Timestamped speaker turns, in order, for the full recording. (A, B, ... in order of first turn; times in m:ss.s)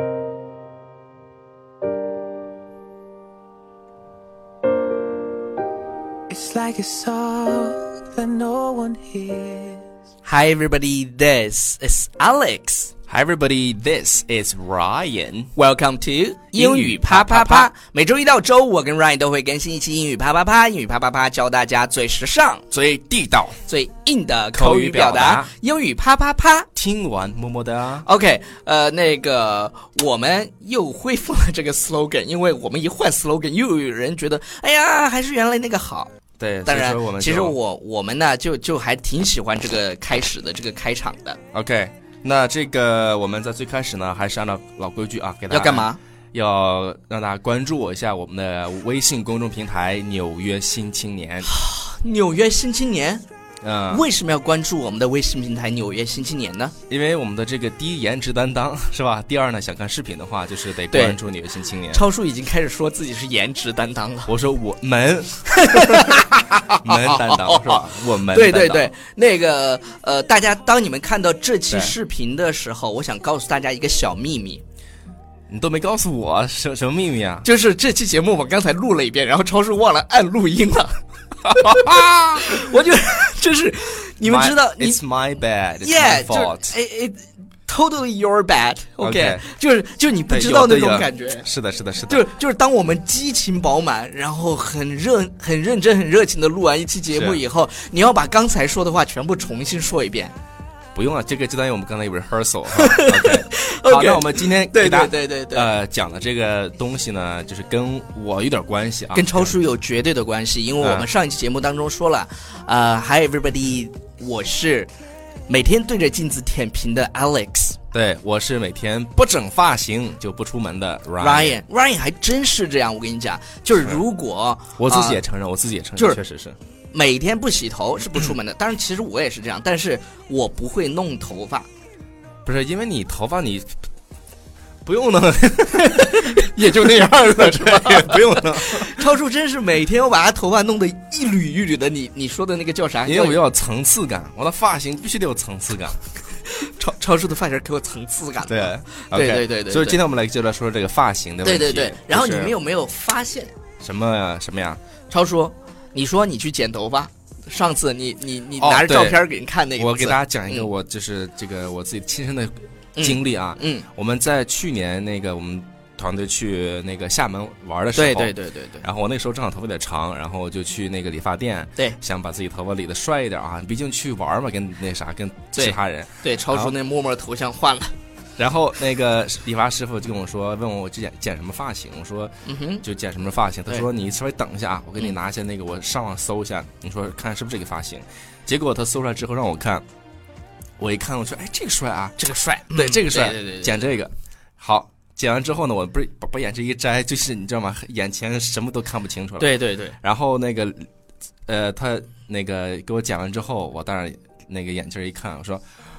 0:06.3-0:09.8 A
0:10.2-0:12.9 B
0:13.1-0:15.5 C
0:15.6-0:22.6 B
0:16.5-0:17.7 C
0:22.7-0:23.6 C
0:23.7-0:26.7 B
0:24.5-0:25.5 C
0:26.7-0:28.0 C
0:28.0-0:36.1 B
0:36.4-0:37.6 C
0:36.7-0:41.4 B
0:41.5-0:51.5 C
0:45.5-0:46.0 B
0:51.5-0:53.2 B
0:53.6-0:54.0 C
0:53.9-0:56.7 B
0:56.9-1:02.0 C
1:00.9-1:01.2 B
1:01.9-1:04.3 B
1:04.3-1:06.2 C
1:05.5-1:14.6 B
1:06.8-1:08.9 C
1:15.5-1:17.5 C
1:17.4-1:21.0 B
1:21.4-1:22.5 C
1:22.4-1:25.0 B
1:24.2-1:26.8 C
1:25.8-1:31.5 B
1:29.0-1:29.4 C
1:30.3-1:32.2 C
1:32.1-1:40.3 B
1:37.1-1:37.4 C
1:40.9-1:49.5 C
1:42.8-1:45.7 B
1:49.1-1:54.9 B
1:50.8-1:51.1 C
1:55.5-1:57.8 B
1:57.9-2:01.6 C
2:01.2-2:05.2 B
2:04.8-2:06.6 C
2:06.0-2:06.2 B
2:06.9-2:11.7 B
2:12.4-2:13.7 C
2:14.8-2:19.0 C
2:15.8-2:23.4 B
2:23.0-2:26.0 C
2:26.4-2:30.0 B
2:28.5-2:32.5 C
2:31.4-2:33.5 B
2:33.8-2:34.8 C
2:35.1-2:40.7 B
2:38.6-2:39.2 C
2:39.8-2:56.7 C
2:43.0-2:43.8 B
2:47.9-2:48.8 B
2:55.5-2:57.9 B
2:58.4-3:09.8 C
3:02.4-3:02.8 B
3:10.8-3:12.2 C
3:12.2-3:13.8 B
3:12.7-3:20.9 C
3:19.4-3:20.0 B
3:21.5-3:25.6 C